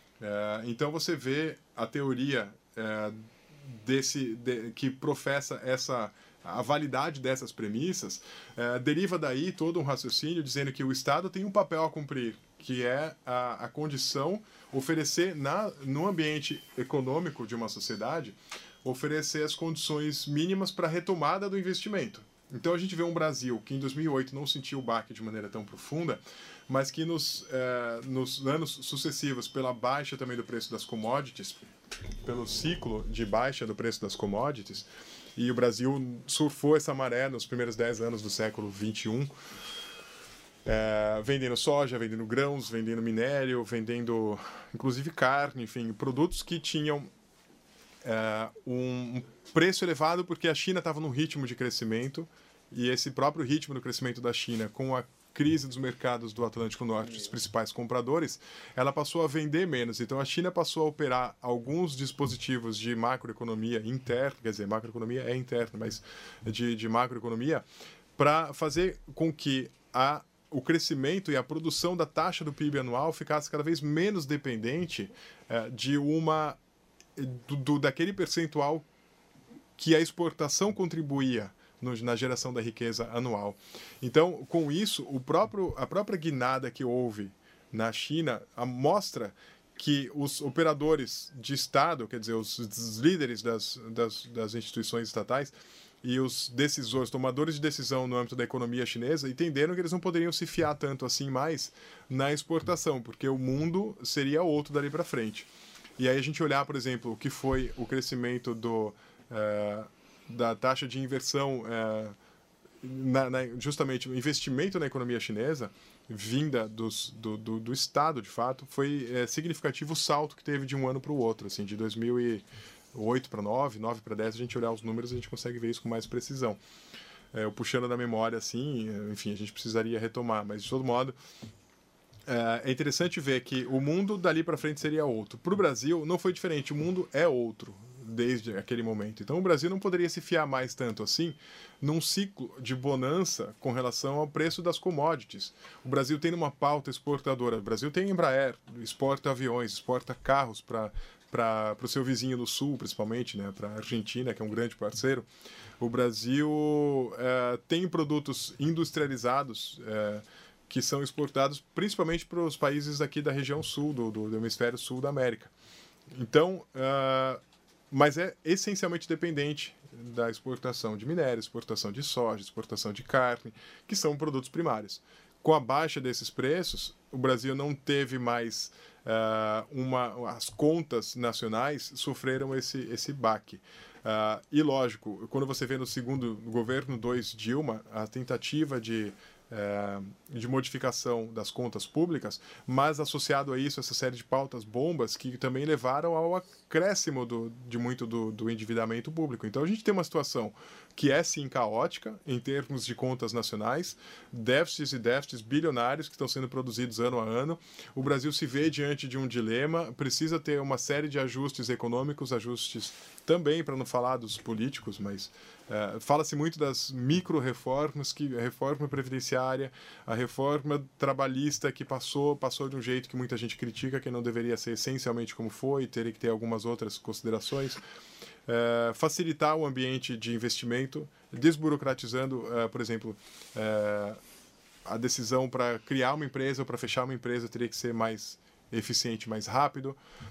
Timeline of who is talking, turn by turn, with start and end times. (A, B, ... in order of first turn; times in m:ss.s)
0:00.2-0:31.6 A
0:32.2-0:39.3 A
0:40.6-0:47.1 A
0:48.0-1:07.6 A
1:08.2-1:16.6 A
1:17.2-1:18.8 A
1:19.8-1:52.2 A
1:52.8-2:06.6 A
2:07.3-2:11.2 A
2:12.3-2:35.2 A
2:35.8-2:45.5 A
2:46.1-3:47.8 A
3:48.4-3:54.2 A
3:54.8-4:00.0 A